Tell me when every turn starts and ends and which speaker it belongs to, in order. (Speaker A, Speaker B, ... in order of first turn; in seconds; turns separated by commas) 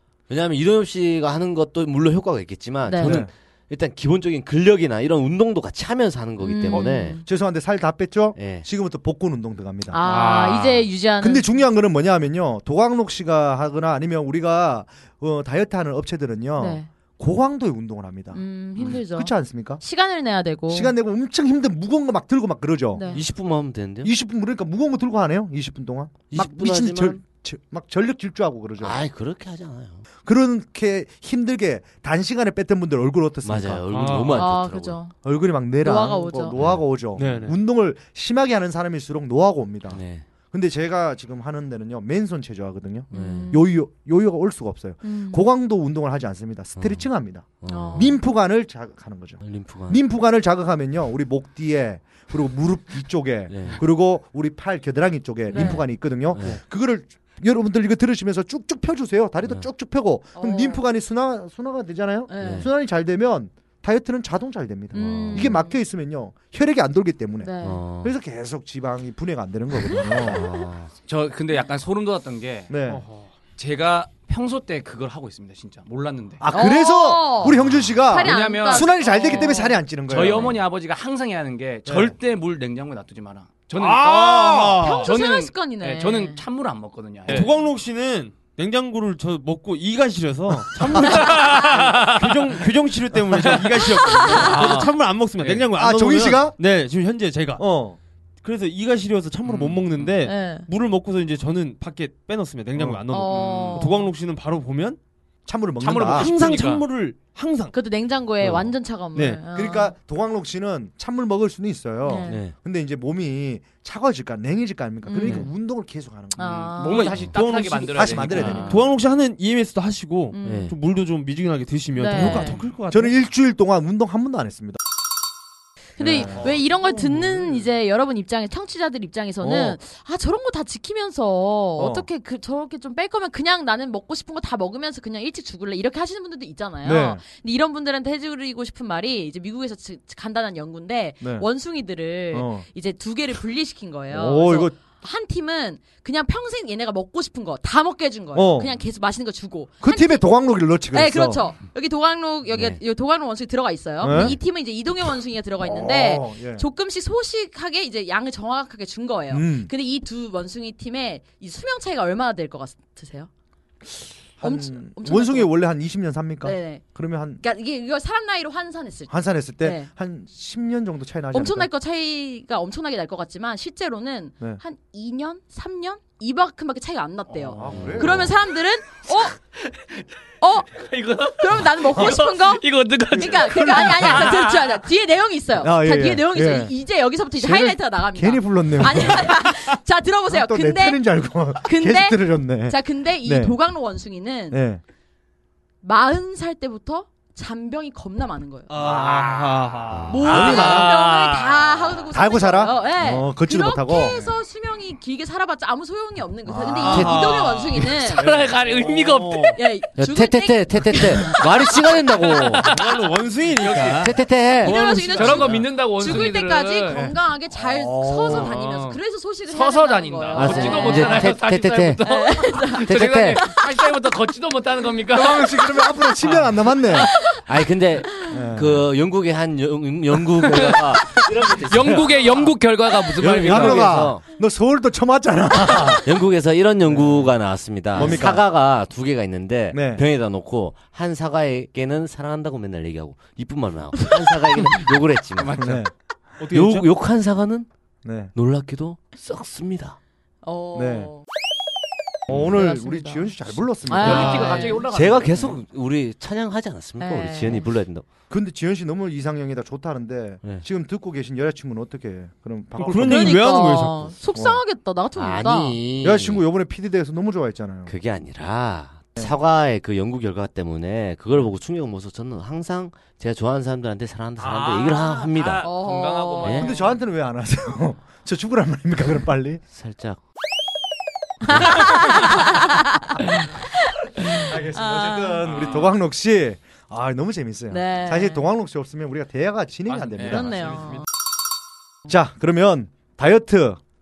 Speaker A: 0.3-7.2, Speaker B: 2.8-3.2, Speaker C: 3.0-3.3, Speaker B: 6.4-7.2, Speaker C: 6.8-10.0, Speaker A: 8.3-8.7, Speaker B: 9.9-11.6, Speaker D: 10.0-10.9, Speaker C: 11.2-19.8, Speaker B: 16.6-16.9, Speaker B: 18.3-20.9, Speaker C: 20.7-23.1, Speaker B: 22.9-23.2, Speaker A: 23.0-24.1, Speaker C: 24.0-29.0, Speaker A: 26.3-27.2, Speaker A: 28.8-30.0, Speaker C: 30.2-34.2, Speaker A: 33.4-35.0, Speaker E: 33.9-34.5, Speaker B: 34.3-35.1, Speaker C: 35.2-70.5, Speaker B: 35.8-36.5, Speaker A: 36.5-36.8, Speaker E: 37.1-37.6, Speaker A: 39.9-40.3, Speaker B: 43.1-43.7, Speaker A: 43.1-43.5, Speaker B: 45.0-45.5, Speaker A: 46.8-47.1, Speaker A: 47.6-48.2, Speaker B: 47.7-48.2, Speaker A: 49.4-50.0, Speaker A: 53.5-53.8, Speaker B: 55.5-55.9, Speaker A: 55.5-55.8, Speaker A: 56.3-56.6, Speaker B: 60.3-60.8, Speaker B: 62.3-62.7, Speaker A: 62.4-62.7, Speaker B: 64.9-65.8, Speaker A: 65.2-65.5, Speaker B: 67.4-67.8, Speaker A: 67.6-68.1, Speaker B: 69.9-70.5, Speaker A: 70.2-70.9, Speaker D: 71.0-72.7, Speaker C: 72.7-73.0, Speaker E: 72.9-73.3, Speaker D: 73.6-76.4, Speaker C: 76.4-80.6, Speaker B: 76.5-79.8, Speaker D: 78.1-79.6, Speaker D: 80.1-87.5, Speaker C: 81.8-82.1, Speaker E: 83.8-85.1, Speaker B: 84.8-86.4, Speaker E: 87.3-97.6, Speaker D: 91.0-92.6, Speaker D: 93.3-93.7, Speaker B: 94.0-94.5, Speaker D: 94.2-95.7, Speaker C: 95.7-96.6, Speaker C: 97.6-98.0, Speaker E: 98.4-105.0, Speaker D: 99.4-100.1, Speaker B: 100.2-100.7, Speaker C: 102.8-103.0, Speaker B: 103.1-104.1, Speaker D: 103.3-103.8, Speaker C: 105.5-106.3, Speaker D: 105.8-106.8, Speaker E: 106.1-107.8, Speaker B: 107.7-109.9, Speaker E: 108.4-109.4, Speaker C: 109.5-116.7, Speaker B: 112.0-112.4, Speaker A: 112.2-112.5, Speaker B: 115.0-115.5, Speaker B: 116.3-117.2, Speaker D: 116.4-118.8, Speaker E: 116.9-123.1, Speaker C: 117.9-118.8, Speaker B: 120.3-120.7, Speaker A: 120.4-120.8, Speaker B: 122.0-122.6, Speaker C: 122.2-124.8, Speaker B: 126.0-150.3, Speaker C: 126.0-126.5, Speaker E: 126.8-127.4, Speaker C: 129.4-129.8, Speaker C: 131.8-132.1, Speaker C: 136.8-137.2, Speaker C: 141.2-141.5, Speaker C: 142.3-142.7, Speaker C: 144.1-144.7, Speaker C: 148.3-148.8, Speaker C: 149.8-151.4, Speaker B: 150.9-163.3, Speaker A: 152.5-152.8, Speaker C: 154.0-154.4, Speaker C: 155.6-156.7, Speaker C: 159.3-159.7, Speaker C: 163.8-167.4, Speaker B: 164.4-165.6, Speaker B: 166.4-166.8, Speaker B: 167.4-169.9, Speaker C: 169.1-171.7, Speaker B: 171.3-179.3, Speaker D: 177.3-177.8, Speaker C: 177.5-178.3, Speaker A: 177.7-178.3, Speaker D: 179.1-180.1, Speaker B: 180.4-191.0, Speaker D: 180.7-184.8, Speaker C: 183.2-184.3, Speaker C: 185.6-186.7, Speaker C: 187.3-189.7, Speaker C: 190.2-193.6, Speaker B: 191.6-194.6, Speaker C: 194.5-194.8, Speaker B: 195.8-198.8, Speaker E: 198.7-201.6, Speaker D: 199.0-199.5, Speaker A: 199.9-200.7, Speaker B: 200.1-208.2, Speaker C: 200.2-200.9, Speaker C: 202.1-204.2, Speaker C: 206.4-207.3, Speaker E: 206.8-207.9, Speaker A: 206.9-207.2, Speaker D: 207.8-209.6, Speaker C: 208.1-208.6, Speaker E: 208.5-209.6, Speaker B: 209.5-211.8, Speaker A: 210.0-212.7, Speaker E: 212.6-215.7, Speaker D: 212.6-214.1, Speaker A: 213.9-214.8, Speaker B: 214.6-221.4, Speaker D: 215.1-217.1, Speaker C: 216.9-218.5, Speaker D: 218.2-227.1, Speaker A: 220.3-222.0, Speaker B: 222.0-223.8, Speaker A: 222.8-223.4, Speaker C: 225.1-227.1, Speaker A: 227.4-232.5, Speaker C: 228.3-228.9, Speaker D: 230.4-234.0, Speaker A: 233.2-234.2, Speaker C: 233.2-236.1, Speaker A: 235.9-245.8, Speaker C: 236.8-238.4, Speaker C: 239.7-240.0, Speaker D: 245.3-245.9, Speaker C: 245.6-245.9, Speaker E: 246.4-246.9, Speaker A: 246.5-247.7, Speaker C: 248.0-248.3, Speaker A: 248.3-250.0, Speaker B: 250.4-251.2, Speaker C: 250.7-251.1, Speaker C: 252.3-254.8, Speaker B: 252.4-253.3, Speaker B: 253.8-254.8, Speaker D: 253.9-255.6, Speaker A: 254.9-258.1, Speaker B: 257.0-257.7, Speaker C: 258.3-263.4, Speaker E: 262.8-264.1, Speaker B: 262.8-265.8, Speaker C: 264.3-264.6, Speaker A: 265.2-266.4, Speaker C: 266.0-267.9, Speaker A: 267.9-275.7, Speaker D: 274.4-277.0, Speaker B: 275.6-276.7, Speaker A: 276.4-276.7, Speaker C: 276.4-279.6, Speaker A: 279.7-280.2, Speaker B: 281.5-285.4, Speaker C: 281.5-281.8, Speaker A: 281.5-281.8, Speaker C: 284.3-290.7, Speaker D: 285.4-285.9, Speaker B: 287.7-288.4, Speaker D: 289.9-291.0, Speaker B: 290.2-291.1, Speaker C: 292.1-293.8